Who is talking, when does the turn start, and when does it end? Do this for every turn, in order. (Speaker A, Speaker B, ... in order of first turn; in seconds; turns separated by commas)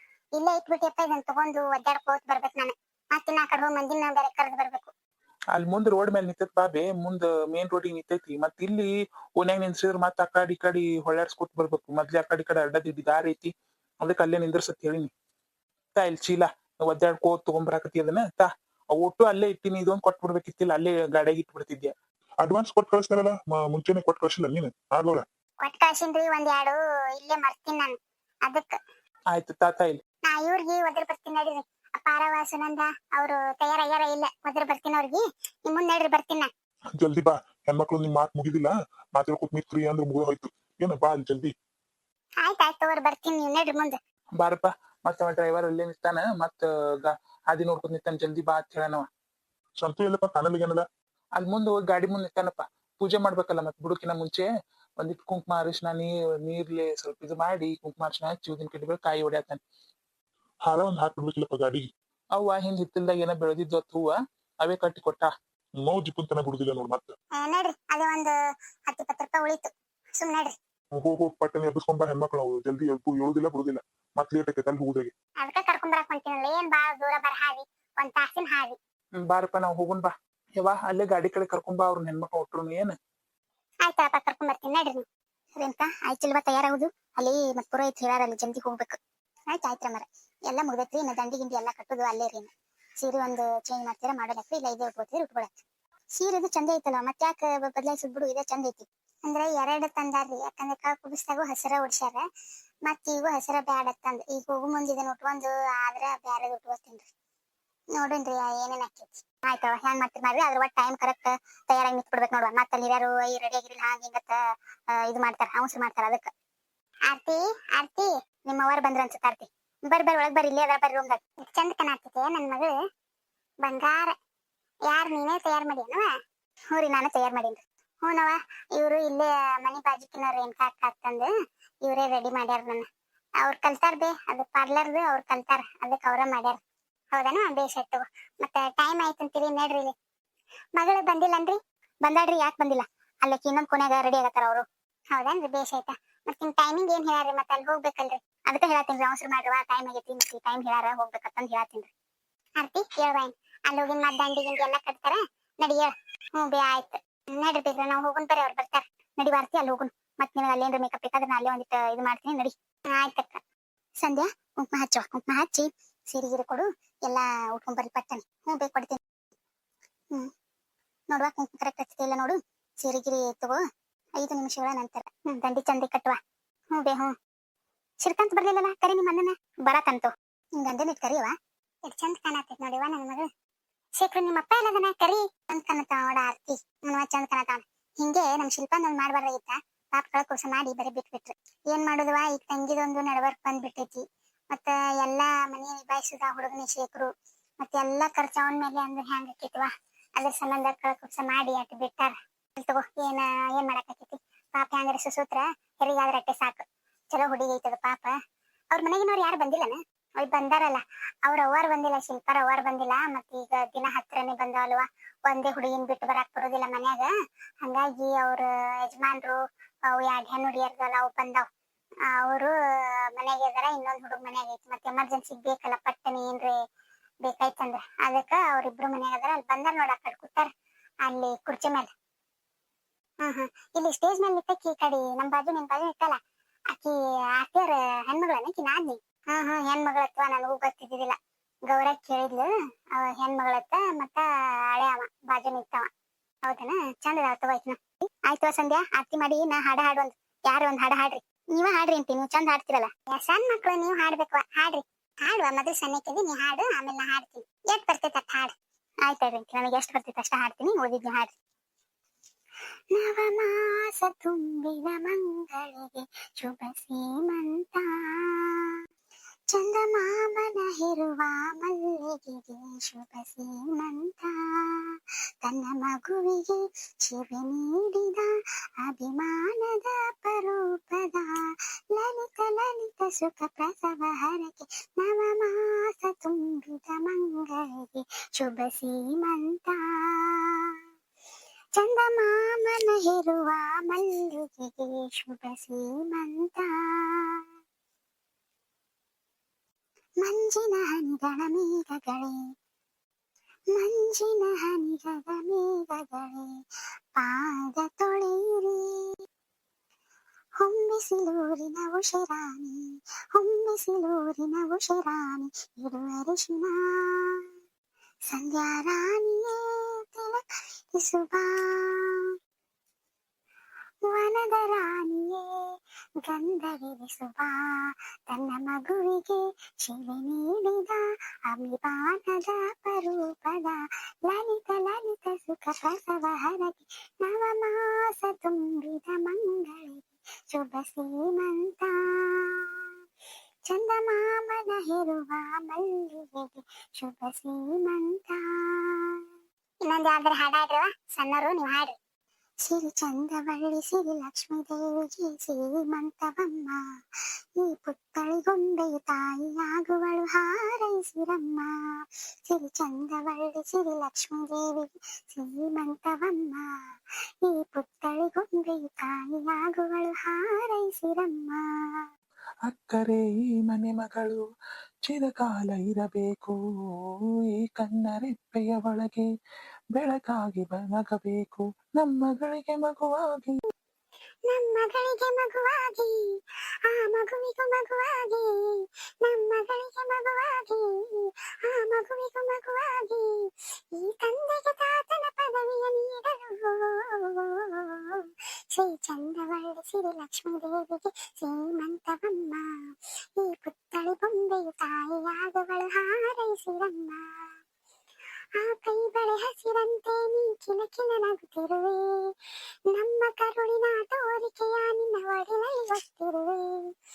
Speaker A: 0.3-4.9, Speaker B: 5.5-15.1, Speaker B: 15.9-21.9, Speaker C: 22.4-25.2, Speaker A: 25.6-27.9, Speaker A: 28.4-28.7, Speaker B: 29.3-30.0, Speaker A: 30.3-36.5, Speaker C: 37.0-41.5, Speaker A: 42.4-44.0, Speaker B: 44.4-49.0, Speaker C: 49.8-50.8, Speaker B: 51.4-54.5, Speaker B: 55.0-59.6, Speaker C: 60.6-61.9, Speaker B: 62.3-65.3, Speaker C: 65.8-67.1, Speaker A: 67.3-68.3, Speaker A: 68.9-70.5, Speaker C: 71.0-75.1, Speaker A: 75.4-78.8, Speaker B: 79.2-82.9, Speaker A: 83.8-85.0, Speaker A: 85.5-89.0, Speaker A: 89.5-95.5, Speaker A: 96.1-102.2, Speaker A: 102.8-107.1, Speaker A: 108.0-114.4, Speaker A: 115.0-116.3, Speaker A: 117.1-122.7, Speaker A: 123.6-124.1, Speaker A: 124.9-126.1, Speaker A: 126.7-131.3, Speaker A: 131.8-132.8, Speaker A: 133.4-136.6, Speaker A: 137.1-139.9, Speaker A: 140.8-151.9, Speaker A: 152.6-163.4, Speaker A: 164.0-169.0, Speaker A: 171.1-173.6, Speaker A: 174.2-176.2, Speaker A: 176.7-177.1, Speaker A: 178.0-181.3, Speaker A: 181.8-183.2, Speaker A: 184.0-208.1, Speaker A: 208.7-217.1, Speaker A: 217.6-219.3, Speaker A: 219.9-221.4, Speaker A: 222.1-222.5, Speaker A: 223.2-226.5, Speaker A: 227.2-230.5, Speaker A: 231.0-231.9, Speaker A: 233.2-236.2, Speaker A: 236.7-241.2, Speaker A: 241.7-245.9, Speaker A: 246.4-258.5, Speaker A: 259.0-261.3, Speaker A: 262.9-268.7, Speaker A: 269.5-290.7, Speaker A: 291.8-297.4, Speaker A: 300.2-302.4, Speaker A: 303.7-306.6, Speaker A: 307.1-309.1, Speaker A: 310.6-312.8, Speaker A: 313.3-317.4, Speaker A: 318.3-320.4, Speaker A: 320.9-322.2, Speaker A: 324.0-325.5, Speaker A: 326.2-342.7, Speaker A: 343.7-349.2, Speaker A: 349.8-351.9, Speaker A: 352.6-356.8, Speaker A: 357.6-366.7, Speaker A: 367.4-372.0, Speaker B: 372.6-374.4, Speaker B: 375.1-376.6, Speaker B: 377.5-379.3, Speaker B: 379.9-383.6, Speaker A: 384.5-386.2, Speaker A: 386.8-393.3, Speaker A: 393.9-402.7, Speaker A: 403.4-407.2, Speaker A: 408.5-412.3, Speaker A: 412.9-416.9